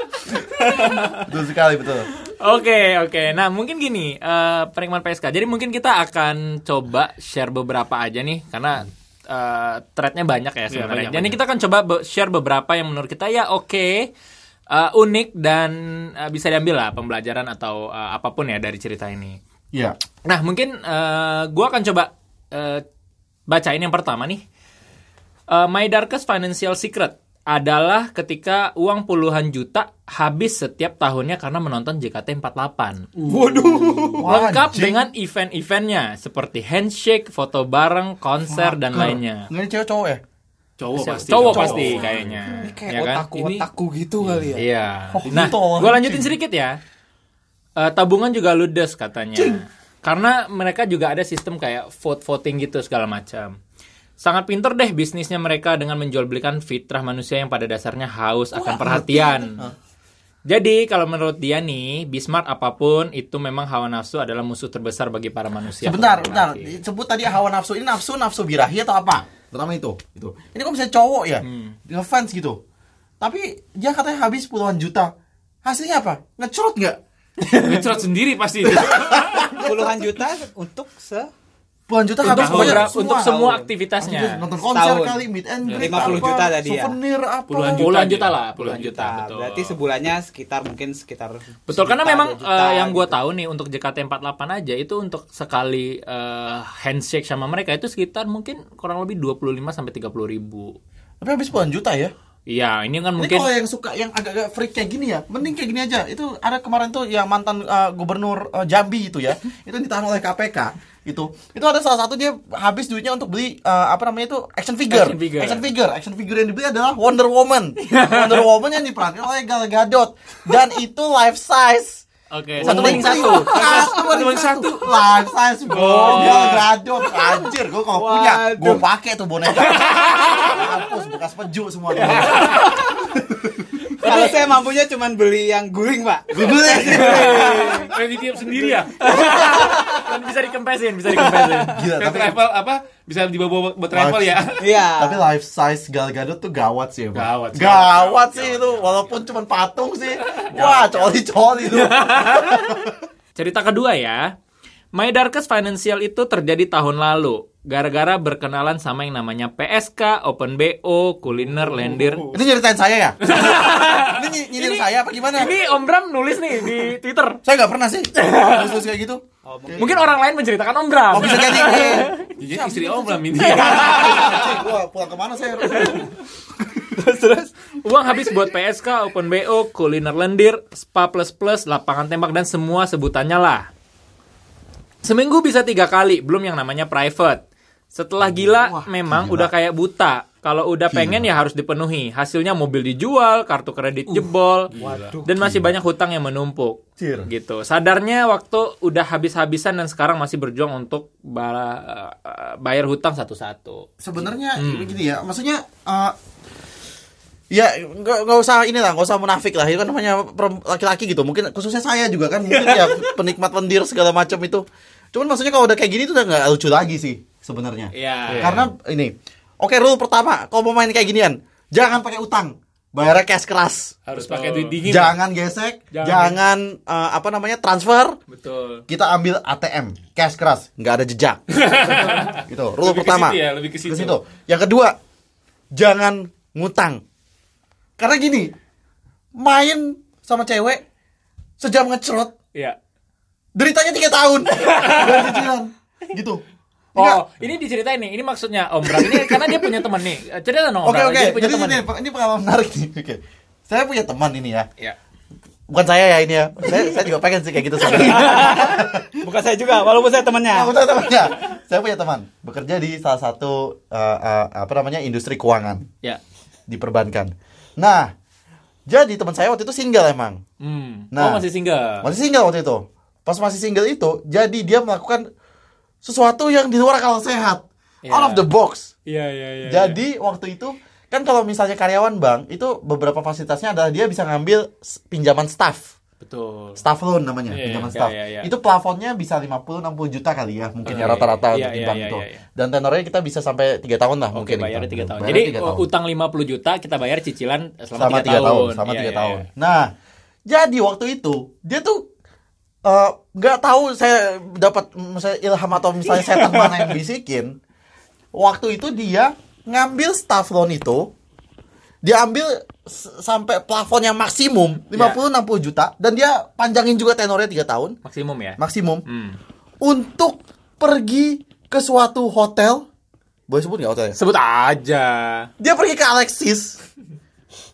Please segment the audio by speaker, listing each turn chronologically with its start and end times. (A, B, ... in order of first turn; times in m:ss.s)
0:01.0-0:02.1 A
0:02.2-0:14.1 B
0:10.7-0:11.4 C
0:14.7-0:19.4 B
0:20.2-0:22.8 B
0:23.5-0:24.4 B
0:25.5-0:33.0 B
0:33.2-0:34.3 C
0:33.3-0:34.3 D
0:34.2-0:35.0 A
0:34.2-0:39.5 B
0:38.4-0:40.2 A
0:40.8-0:42.4 C
0:41.0-0:46.3 A
0:41.1-0:43.3 B
0:42.6-0:43.0 D
0:43.3-0:43.7 C
0:44.2-0:44.5 C
0:44.5-0:46.8 B
0:47.8-0:53.6 B
0:49.3-0:49.6 A
0:54.2-0:59.7 B
0:58.5-0:59.7 A
1:00.5-1:06.7 B
1:05.8-1:12.6 A
1:11.4-1:11.8 B
1:13.2-1:15.1 A
1:15.6-1:17.7 A
1:17.5-1:19.5 C
1:18.7-1:19.9 A
1:19.6-1:21.3 D
1:21.9-1:23.3 A
1:22.2-1:22.9 C
1:22.2-1:24.4 B
1:23.0-1:23.7 D
1:24.0-1:27.9 A
1:24.6-1:27.0 D
1:25.6-1:26.3 C
1:27.5-1:28.9 C
1:27.7-1:29.8 B
1:28.6-1:33.2 D
1:31.7-1:40.8 B
1:41.2-1:42.1 A
1:42.5-1:43.5 B
1:43.2-2:02.0 A
1:54.9-1:55.7 B
1:58.0-1:58.3 B
2:02.3-2:03.6 B
2:02.6-2:12.6 A
2:02.6-2:04.9 C
2:05.7-2:06.6 C
2:07.9-2:08.8 D
2:11.9-2:12.8 B
2:13.2-2:13.7 A
2:13.9-2:14.5 B
2:14.0-2:17.9 D
2:16.3-2:17.4 A
2:16.9-2:19.6 C
2:16.9-2:17.9 B
2:18.5-2:20.0 D
2:19.0-2:21.9 B
2:21.1-2:21.6 D
2:21.7-2:22.4 A
2:22.0-2:24.7 C
2:23.9-2:24.3 A
2:24.6-2:25.3 D
2:25.0-2:33.0 A
2:27.1-2:29.2 C
2:30.3-2:30.9 C
2:31.6-2:32.7 B
2:33.4-2:34.2 B
2:34.9-2:42.3 B
2:42.3-2:45.5 A
2:43.2-2:47.4 B
2:43.3-2:44.0 C
2:47.4-2:50.1 A
2:48.1-2:48.7 B
2:49.4-2:50.1 D
2:49.8-2:52.3 B
2:51.1-2:52.6 A
2:52.4-2:54.5 C
2:53.4-2:56.1 A
2:53.5-2:53.8 B
2:55.8-2:56.0 B
2:56.9-2:57.5 D
2:57.8-3:03.7 B
3:05.0-3:14.7 B
3:08.5-3:09.5 A
3:10.9-3:11.3 A
3:14.1-3:15.2 C
3:14.8-3:15.3 D
3:15.2-3:23.9 B
3:17.0-3:17.3 A
3:24.0-3:26.1 A
3:24.6-3:25.0 B
3:27.5-3:44.0 A
3:32.5-3:33.1 B
3:37.9-3:38.6 B
3:38.3-3:38.7 C
3:44.1-3:45.2 C
3:44.2-3:44.8 B
3:44.8-3:48.2 A
3:45.9-3:46.4 B
3:48.3-3:48.8 B
3:48.9-3:54.9 A
3:51.5-3:54.2 C
3:55.7-3:57.0 A
3:58.0-3:58.5 A
3:59.3-4:00.8 A
4:01.6-4:02.3 A
4:03.5-4:06.4 A
4:04.6-4:05.5 B
4:06.9-4:11.8 B
4:07.0-4:07.2 A
4:08.9-4:09.8 A
4:10.8-4:14.7 A
4:15.7-4:19.1 A
4:17.8-4:20.7 D
4:20.5-4:25.8 A
4:26.7-4:28.1 A
4:28.9-4:30.4 A
4:30.6-4:32.1 B
4:31.1-4:31.4 A
4:32.0-4:35.2 A
4:36.0-4:38.9 A
4:38.0-4:38.5 B
4:39.1-4:40.0 B
4:39.6-4:45.9 A
4:46.2-4:46.8 B
4:46.8-4:55.8 A
4:47.5-4:48.0 C
4:47.9-4:48.5 B
4:50.8-4:51.1 C
4:50.8-4:52.4 B
4:54.3-4:59.5 B
4:58.0-4:59.9 A
5:00.5-5:02.0 A
5:02.8-5:07.6 A
5:06.2-5:06.9 B
5:08.3-5:11.1 A
5:12.0-5:18.0 A
5:14.9-5:15.2 B
5:18.0-5:19.4 B
5:18.6-5:19.0 A
5:19.8-5:22.8 A
5:23.5-5:24.2 A
5:24.1-5:25.5 B
5:25.6-5:26.8 A